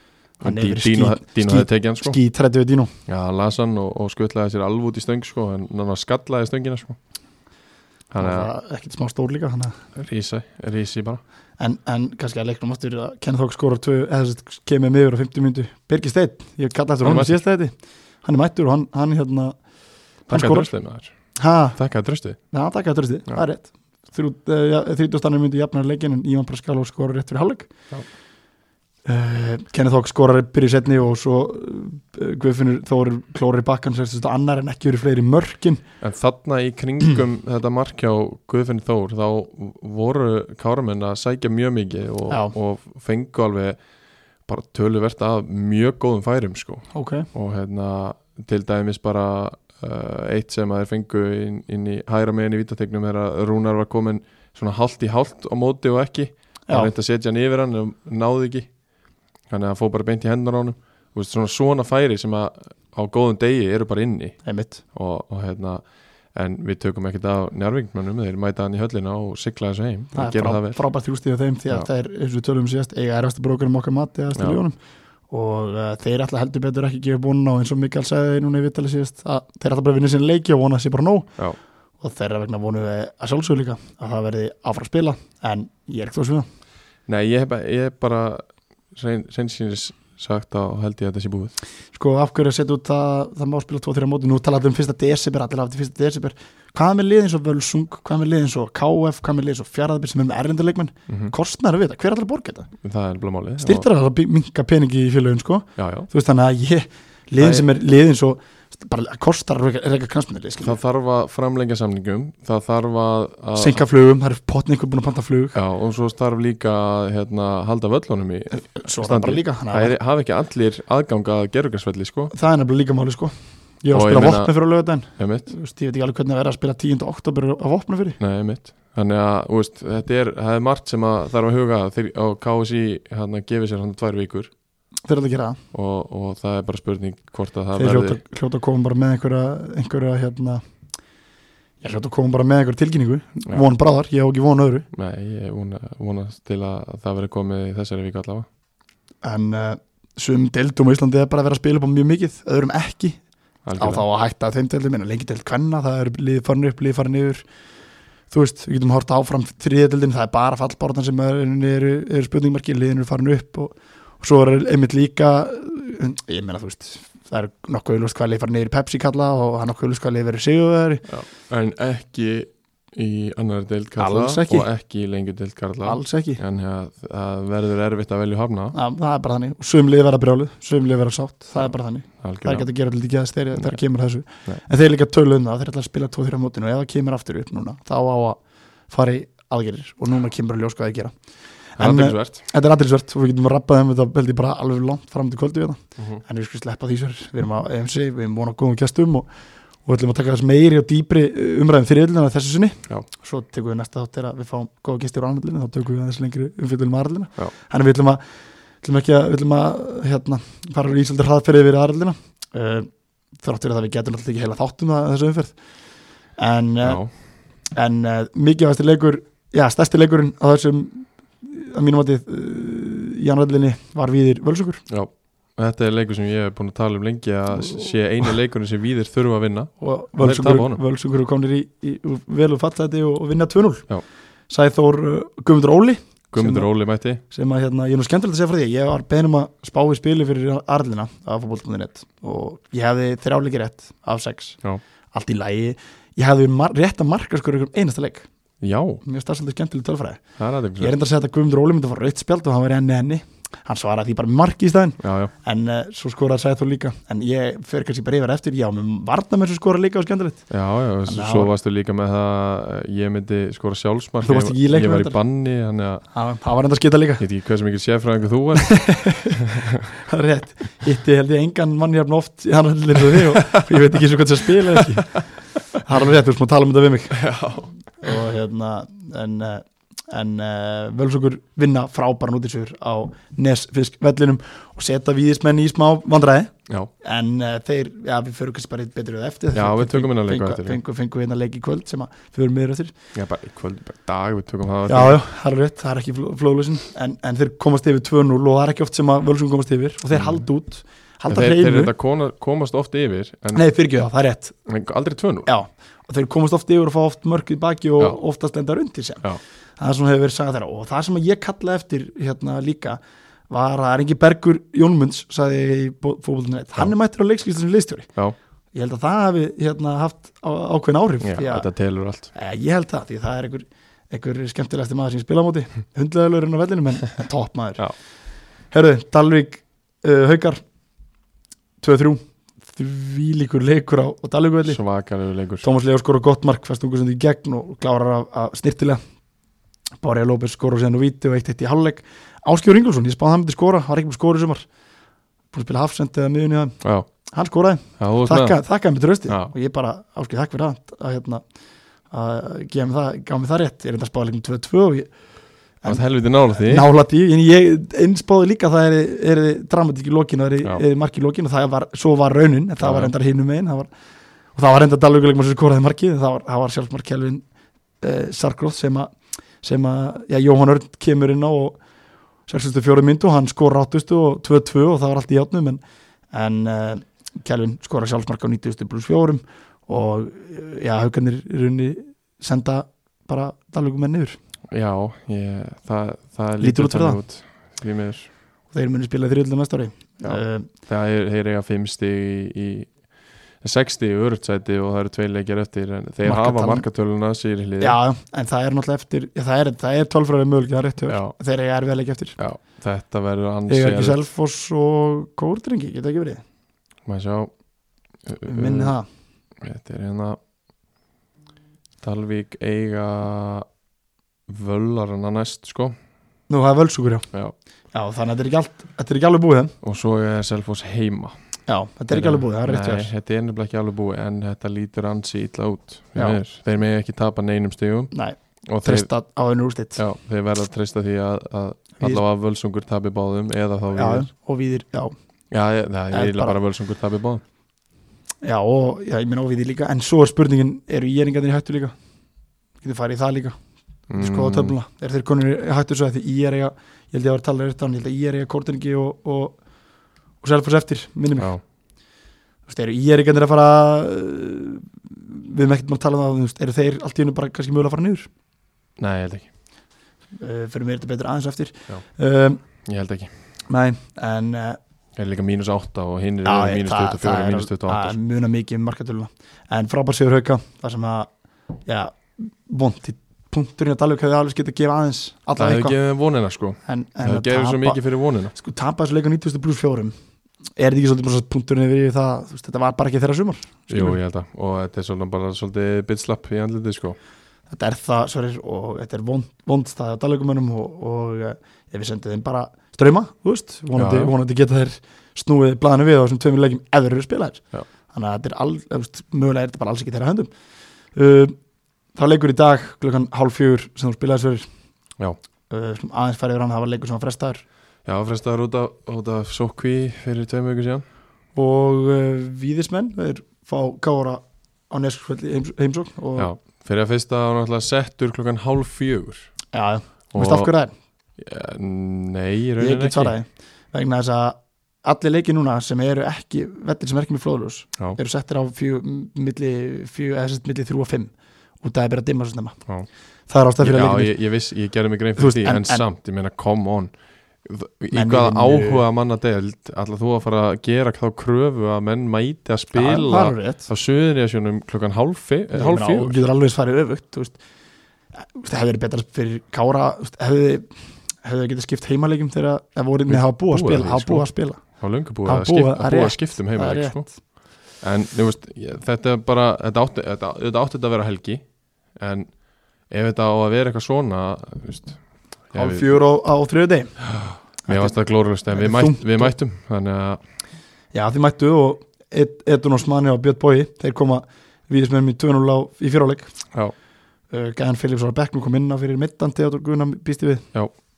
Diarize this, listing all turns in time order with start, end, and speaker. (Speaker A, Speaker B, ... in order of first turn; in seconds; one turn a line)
Speaker A: 0.4-2.2
Speaker B: 0.4-2.9
Speaker A: 3.1-7.0
Speaker A: 8.1-8.5
Speaker B: 8.2-9.8
Speaker A: 10.0-11.2
Speaker B: 11.6-19.6
Speaker A: 17.0-17.4
Speaker B: 20.3-20.7
Speaker A: 20.3-22.4
Speaker B: 21.4-21.8
Speaker B: 22.5-27.7
Speaker B: 29.1-35.8
Speaker A: 36.0-43.8
Speaker B: 42.3-42.5
Speaker A: 44.5-58.7
Speaker B: 46.9-47.3
Speaker A: 59.5-70.8
Speaker B: 64.4-64.8
Speaker B: 70.2-74.8
Speaker A: 74.3-74.6
Speaker B: 75.3-81.3
Speaker B: 82.0-86.5
Speaker A: 87.1-91.5
Speaker B: 91.9-102.7
Speaker A: 102.8-103.9
Speaker B: 103.6-110.8
Speaker A: 105.8-106.1
Speaker A: 107.4-107.7
Speaker A: 110.6-113.8
Speaker B: 113.6-115.6
Speaker A: 115.5-122.3
Speaker B: 118.5-119.9
Speaker B: 122.3-128.2
Speaker A: 123.9-125.5
Speaker A: 128.2-134.5
Speaker B: 135.1-135.6
Speaker A: 135.7-138.2
Speaker B: 137.8-140.6
Speaker B: 141.8-144.9
Speaker A: 144.9-148.5
Speaker B: 149.2-153.2
Speaker A: 153.7-154.0
Speaker B: 153.8-157.4
Speaker B: 158.3-171.0
Speaker A: 171.1-178.8
Speaker B: 174.0-174.7
Speaker B: 175.8-176.4
Speaker B: 178.7-191.1
Speaker A: 182.2-182.7
Speaker B: 191.8-199.3
Speaker A: 191.8-192.4
Speaker B: 199.8-208.2
Speaker B: 208.8-215.6
Speaker B: 216.4-217.0
Speaker A: 216.8-217.1
Speaker B: 217.7-224.8
Speaker A: 224.9-230.8
Speaker B: 229.8-233.9
Speaker B: 234.5-236.7
Speaker A: 236.3-237.2
Speaker B: 237.2-248.3
Speaker A: 248.6-249.0
Speaker B: 249.0-250.2
Speaker A: 250.4-250.9
Speaker B: 250.8-260.5
Speaker A: 255.0-255.3
Speaker A: 260.5-266.1
Speaker B: 261.0-261.5
Speaker B: 264.2-265.2
Speaker B: 266.1-267.2
Speaker A: 267.2-269.3
Speaker B: 268.6-269.4
Speaker B: 270.1-275.2
Speaker A: 274.8-275.0
Speaker B: 275.8-277.2
Speaker A: 277.1-277.7
Speaker B: 278.0-292.9
Speaker A: 289.5-290.8
Speaker A: 293.1-295.2
Speaker B: 294.9-301.9
Speaker A: 300.1-300.4
Speaker A: 301.3-303.6
Speaker B: 303.5-304.6
Speaker A: 304.7-305.5
Speaker B: 305.5-309.2
Speaker B: 309.8-318.1
Speaker B: 318.7-321.7
Speaker A: 321.2-322.3
Speaker B: 322.3-327.9
Speaker B: 328.7-330.6
Speaker B: 331.8-334.8
Speaker A: 334.7-335.7
Speaker B: 335.6-339.0
Speaker B: 340.0-344.7
Speaker B: 345.5-346.8
Speaker A: 346.8-347.1
Speaker B: 347.3-351.4
Speaker A: 348.0-348.6
Speaker A: 349.3-349.5
Speaker B: 352.1-355.1
Speaker B: 355.8-363.9
Speaker A: 355.9-356.9
Speaker A: 362.8-363.1
Speaker B: 364.6-367.4
Speaker B: 368.0-371.8
Speaker B: 372.5-375.8
Speaker B: 376.3-384.4
Speaker A: 384.7-388.3
Speaker B: 386.6-387.2
Speaker B: 388.7-390.7
Speaker A: 390.2-398.0
Speaker B: 396.2-396.9
Speaker B: 397.8-402.4
Speaker A: 401.1-401.4
Speaker A: 402.4-404.2
Speaker B: 403.7-406.4
Speaker A: 407.1-407.5
Speaker A: 408.2-408.9
Speaker B: 408.5-409.1
Speaker A: 409.6-410.4
Speaker A: 412.0-413.7
Speaker A: 414.5-415.9
Speaker B: 416.5-417.3
Speaker B: 417.9-419.7
Speaker A: 419.8-421.4
Speaker B: 421.7-423.1
Speaker A: 422.1-428.1
Speaker B: 428.1-430.0
Speaker A: 428.7-429.1
Speaker A: 430.0-434.3
Speaker B: 433.9-435.1
Speaker A: 435.5-437.4
Speaker B: 436.1-436.6
Speaker B: 438.4-441.9
Speaker B: 442.8-443.6
Speaker A: 444.1-444.8
Speaker B: 444.1-449.6
Speaker B: 450.4-451.5
Speaker B: 452.7-458.3
Speaker A: 459.0-459.5
Speaker B: 460.4-462.6
Speaker A: 462.9-463.3
Speaker B: 463.7-464.8
Speaker A: 465.2-468.2
Speaker B: 466.4-471.3
Speaker B: 471.9-476.0
Speaker A: 475.6-478.5
Speaker B: 476.9-478.0
Speaker B: 478.5-480.1
Speaker B: 480.8-484.2
Speaker A: 483.9-487.2
Speaker B: 487.7-500.5
Speaker A: 493.9-494.3
Speaker B: 501.1-501.6
Speaker B: 502.1-504.7
Speaker B: 505.7-507.6
Speaker A: 508.1-511.0
Speaker B: 511.6-516.5
Speaker A: 516.4-519.5
Speaker B: 519.7-520.9
Speaker A: 520.3-520.7
Speaker A: 521.4-523.3
Speaker B: 522.8-532.8
Speaker B: 533.5-534.4
Speaker A: 533.8-537.1
Speaker B: 535.4-536.0
Speaker A: 537.6-546.4
Speaker B: 538.1-539.0
Speaker B: 542.9-543.9
Speaker B: 545.7-547.6
Speaker B: 548.4-550.9
Speaker B: 551.4-557.4
Speaker A: 553.3-566.1
Speaker B: 565.7-567.3
Speaker A: 567.3-570.4
Speaker B: 567.9-569.5
Speaker B: 571.1-576.5
Speaker B: 577.5-580.6